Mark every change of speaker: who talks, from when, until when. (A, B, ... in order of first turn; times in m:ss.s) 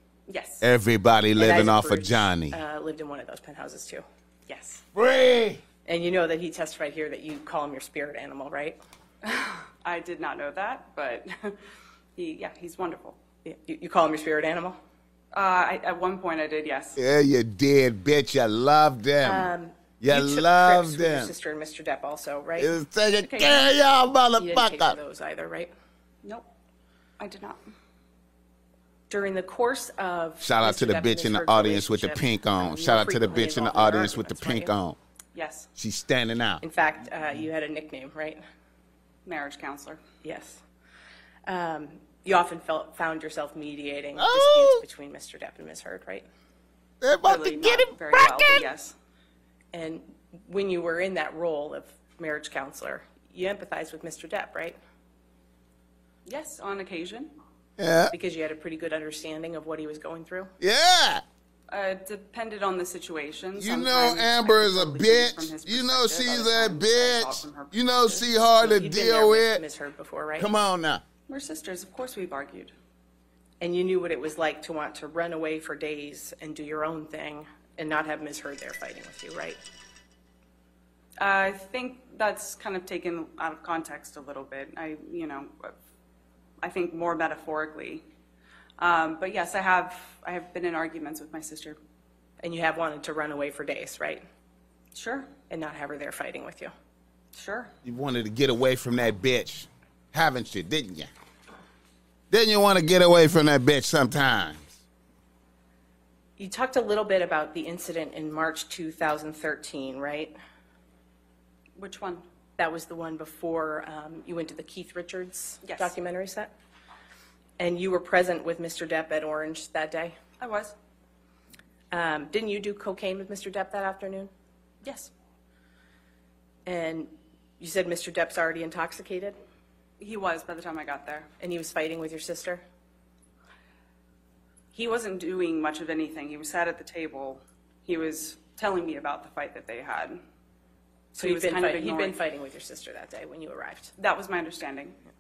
0:00.3-0:00.7 A
0:00.6-0:02.6 B
0:01.4-0:04.8 C
0:04.9-0:05.6 B
0:05.8-0:08.8 C
0:09.2-0:11.6 A
0:12.2-0:13.2 A
0:13.4-0:14.8 C
0:15.3-0:17.0 A
0:17.0-0:21.3 B
0:19.2-0:23.7 C
0:22.6-0:25.0 B
0:24.4-0:25.7 C
0:27.2-0:27.6 A
0:29.1-0:34.7 C
0:30.4-0:35.0 B
0:35.3-0:35.7 A
0:35.8-0:36.6 B
0:36.6-0:38.4 C
0:39.2-0:40.0 A
0:40.2-0:40.6 C
0:41.4-0:46.2 C
0:44.2-0:44.8 B
0:47.0-0:48.7 B
0:47.2-0:48.9 A
0:49.7-0:54.8 C
0:56.2-0:57.3 A
0:57.8-0:58.1 B
0:58.1-1:00.5 C
1:00.6-1:01.2 B
1:01.7-1:08.0 A
1:03.6-1:09.6 B
1:08.1-1:10.5 C
1:10.4-1:11.0 B
1:11.3-1:12.7 A
1:13.6-1:19.6 C
1:21.2-1:25.7 A
1:26.6-1:28.0 A
1:28.8-1:31.8 A
1:32.4-1:34.2 C
1:34.9-1:35.4 A
1:35.5-1:36.7 C
1:37.3-1:37.7 A
1:37.8-1:41.1 B
1:42.3-1:44.8 B
1:46.4-1:50.3 C
1:51.8-1:52.2 A
1:52.6-1:56.5 C
1:55.6-1:55.9 A
1:57.6-2:00.2 C
2:00.4-2:00.7 A
2:01.9-2:04.3 C
2:04.8-2:05.1 A
2:06.7-2:09.4 C
2:10.0-2:11.3 A
2:11.4-2:12.6 C
2:14.7-2:20.2 A
2:21.1-2:22.2 A
2:21.2-2:23.9 C
2:24.0-2:25.0 A